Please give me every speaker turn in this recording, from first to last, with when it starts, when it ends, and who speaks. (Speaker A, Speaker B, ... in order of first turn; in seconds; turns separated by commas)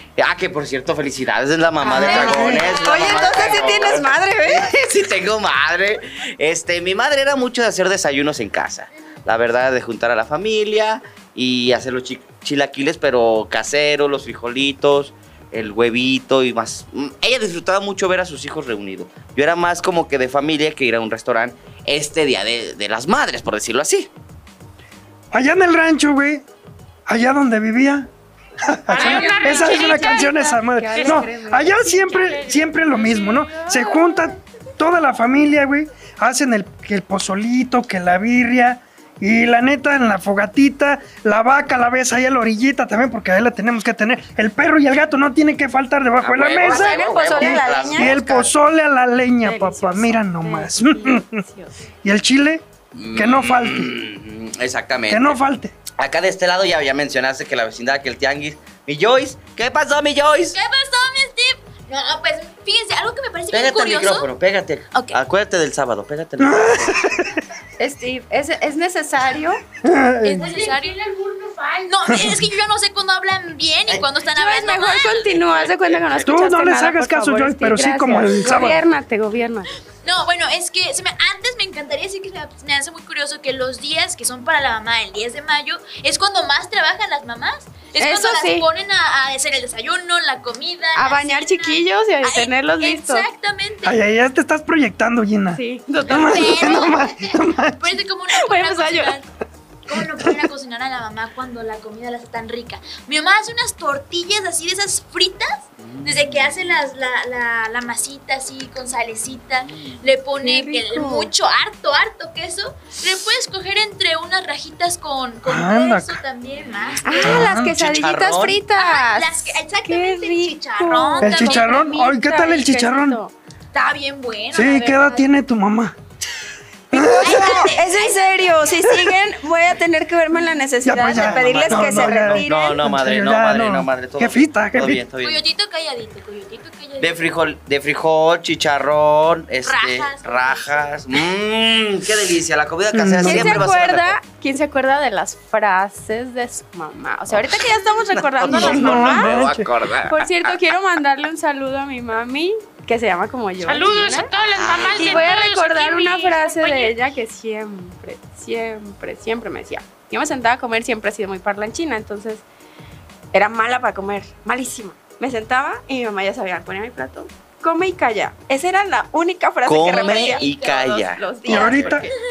Speaker A: 0.2-24.1, Speaker B: 1.8-4.7, Speaker C: 2.1-2.7, Speaker D: 2.3-3.3, Speaker C: 25.3-26.4, Speaker C: 27.1-28.1, Speaker C: 28.6-51.4, Speaker E: 28.9-33.9, Speaker B: 28.9-32.1, Speaker A: 46.2-48.5, Speaker B: 46.6-48.1, Speaker B: 49.4-51.7, Speaker C: 52.0-52.6, Speaker A: 52.9-55.4, Speaker C: 53.1-53.9, Speaker C: 55.1-55.7, Speaker A: 56.0-60.6, Speaker D: 60.5-64.3, Speaker A: 63.5-67.2, Speaker D: 64.9-65.2, Speaker C: 66.4-67.4, Speaker B: 67.8-69.6, Speaker C: 69.8-70.5, Speaker D: 70.2-71.0, Speaker E: 70.4-72.1, Speaker D: 71.8-75.3, Speaker B: 74.3-79.7, Speaker A: 75.5-76.1, Speaker C: 76.2-78.8, Speaker D: 80.0-94.0, Speaker B: 88.0-88.7, Speaker B: 90.9-93.2, Speaker C: 93.8-98.0, Speaker B: 95.5-96.9, Speaker D: 96.1-99.3, Speaker B: 98.3-99.2, Speaker D: 99.9-117.5, Speaker A: 105.8-106.7, Speaker B: 110.4-111.3, Speaker C: 115.4-116.2, Speaker A: 116.5-118.7, Speaker B: 117.0-123.3, Speaker C: 117.2-117.8, Speaker D: 118.7-121.9, Speaker C: 121.2-123.2, Speaker D: 123.7-125.2, Speaker C: 124.5-126.0, Speaker C: 126.9-127.6, Speaker B: 126.9-132.8, Speaker D: 127.0-128.7, Speaker C: 130.8-135.0, Speaker A: 130.9-135.4, Speaker D: 135.2-137.4, Speaker A: 137.0-144.2, Speaker D: 139.6-141.0, Speaker C: 142.9-143.6, Speaker B: 143.2-149.4, Speaker A: 148.1-150.6, Speaker C: 148.4-149.7, Speaker B: 150.0-154.3, Speaker E: 153.6-156.9, Speaker A: 154.5-155.3, Speaker B: 154.9-162.4, Speaker B: 163.3-172.0, Speaker A: 169.6-172.1, Speaker D: 169.9-171.1, Speaker C: 171.5-172.1, Speaker D: 171.7-172.1